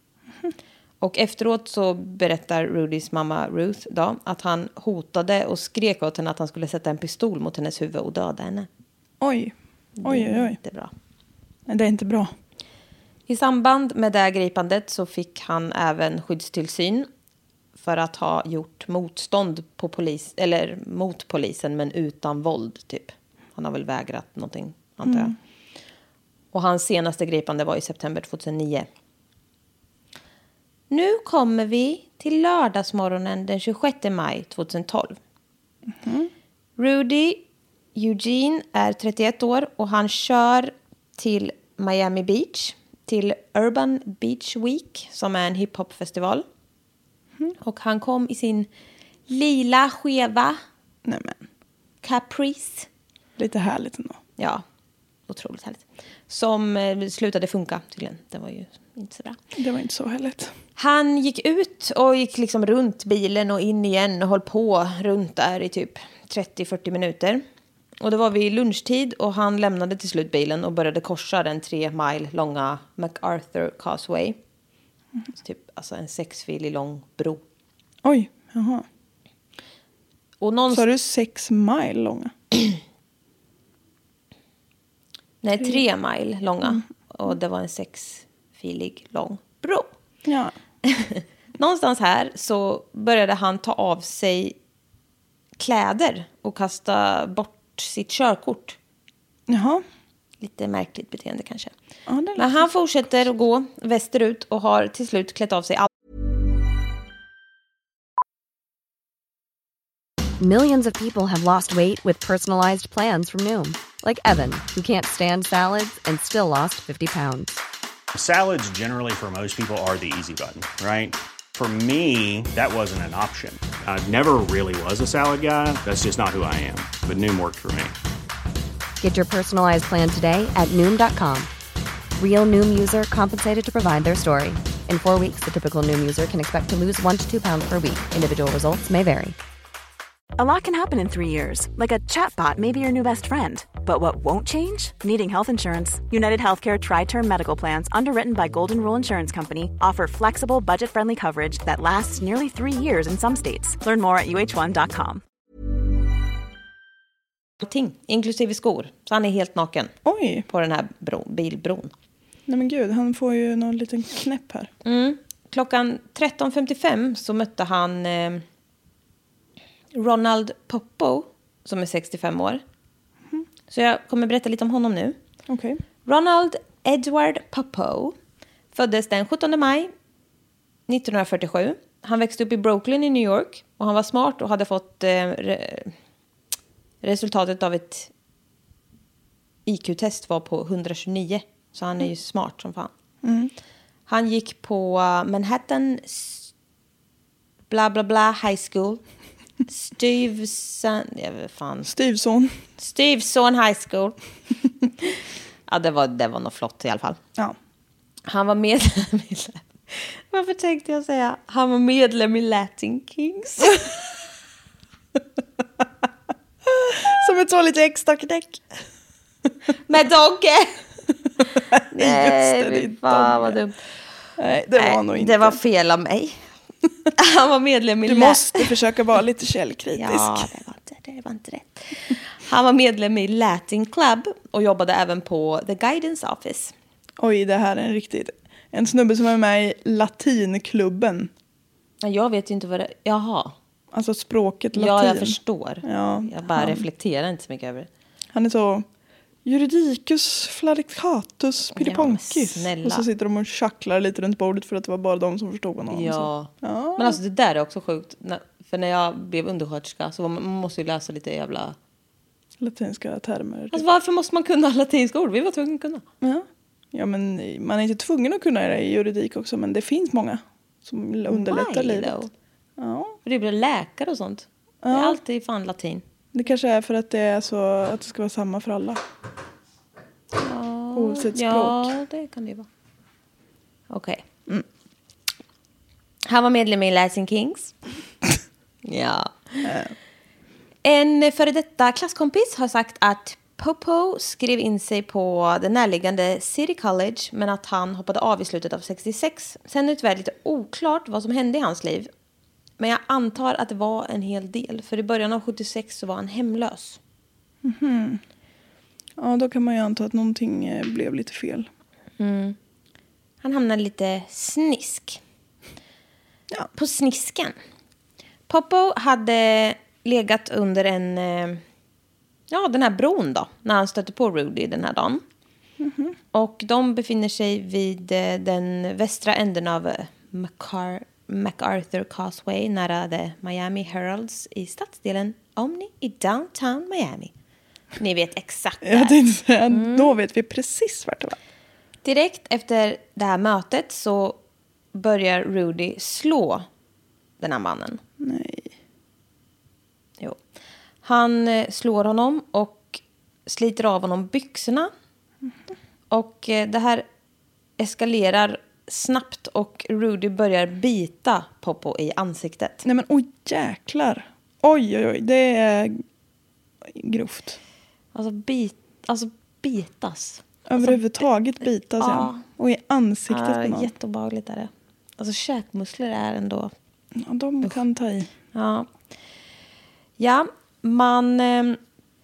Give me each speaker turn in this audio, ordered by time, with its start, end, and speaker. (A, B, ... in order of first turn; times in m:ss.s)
0:01.0-0:08.7 A
0:09.2-0:09.5 B
0:10.0-0:10.9 A
0:10.0-0:10.6 B
0:11.7-0:12.3 B
0:13.3-0:17.1 A
0:17.8-0:25.3 A
0:26.5-0:28.9 A
0:30.9-0:35.2 A
0:36.0-0:36.3 B
0:36.8-0:37.4 A
0:37.9-0:46.4 A
0:47.6-0:48.7 A
0:49.3-0:50.6 A
0:51.0-0:51.4 B
0:52.0-0:52.9 A
0:53.4-0:54.2 B
0:54.4-0:54.6 A
0:55.3-0:59.4 A
0:59.6-1:00.5 B
1:00.8-1:07.4 A
1:08.0-1:14.4 A
1:15.4-1:17.4 A
1:18.0-1:18.8 B
1:20.4-1:20.8 A
1:20.7-1:22.3 B
1:25.4-1:29.9 A
1:30.2-1:30.5 B
1:30.8-1:34.6 A
1:35.6-1:38.8 A
1:39.5-1:39.8 B
1:40.4-1:41.7 A
1:42.1-1:42.7 B
1:42.4-1:45.9 A
1:50.4-1:57.6 C
1:58.1-2:07.9 D
2:09.0-2:11.5 C
2:12.2-2:19.4 C
2:20.4-2:35.2 E
2:37.6-2:39.9 A
2:40.0-2:40.5 B
2:40.5-2:41.9 A
2:42.5-2:44.7 B
2:44.8-2:48.4 A
2:49.9-2:52.6 A
2:53.7-2:55.2 A
2:55.5-2:55.8 B
2:56.0-2:58.1 A
2:58.7-2:59.9 A
3:00.9-3:05.9 A
3:07.0-3:08.1 A
3:09.6-3:12.9 A
3:13.2-3:13.5 B
3:14.1-3:16.5 A
3:17.7-3:19.0 A
3:19.7-3:21.9 A
3:21.9-3:22.6 B
3:22.8-3:24.1 A
3:25.7-3:27.2 A
3:28.3-3:33.8 A
3:36.7-3:38.6 B
3:39.9-3:40.7 A
3:41.9-3:43.8 A
3:41.9-3:43.6 B
3:44.4-3:45.6 B
3:44.7-3:46.4 A
3:47.2-3:48.6 A
3:48.0-3:50.5 B
3:50.0-3:56.7 A
3:57.2-4:01.3 B
4:02.0-4:03.5 A
4:03.9-4:06.8 B
4:04.7-4:07.9 A
4:08.3-4:08.8 B
4:09.4-4:17.2 B
4:11.8-4:13.0 A
4:15.9-4:21.8 A
4:22.6-4:23.8 B
4:23.7-4:26.0 A
4:26.2-4:32.1 B
4:31.3-4:32.3 A
4:32.8-4:33.2 B
4:33.2-4:36.0 A
4:34.8-4:35.2 B
4:36.3-4:39.0 B
4:40.3-4:42.7 A
4:40.9-4:41.9 B
4:43.9-4:44.2 A
4:46.2-4:47.7 A
4:48.8-4:49.7 A
4:49.6-4:49.9 B
4:50.8-5:02.1 A
5:02.8-5:07.0 A
5:07.6-5:08.2 B
5:09.2-5:11.7 B
5:12.2-5:12.6 A
5:13.4-5:15.2 A
5:16.7-5:17.6 A
5:18.5-5:21.6 A
5:22.5-5:25.2 A
5:25.8-5:26.1 B
5:26.3-5:37.3 A
5:38.0-5:39.2 A
5:38.8-5:41.4 B
5:39.7-5:40.1 A
5:42.0-5:44.4 A
5:44.9-5:46.6 A
5:47.4-5:48.0 A
5:48.2-5:48.7 B
5:51.0-5:54.9 A
5:56.1-5:57.0 A
5:57.8-6:02.8 A
6:02.8-6:06.0 B
6:06.9-6:07.6 B
6:08.1-6:11.0 A
6:10.7-6:13.9 B
6:12.0-6:12.4 A
6:13.3-6:16.7 A
6:17.2-6:18.3 B
6:18.5-6:18.9 A
6:20.2-6:21.8 A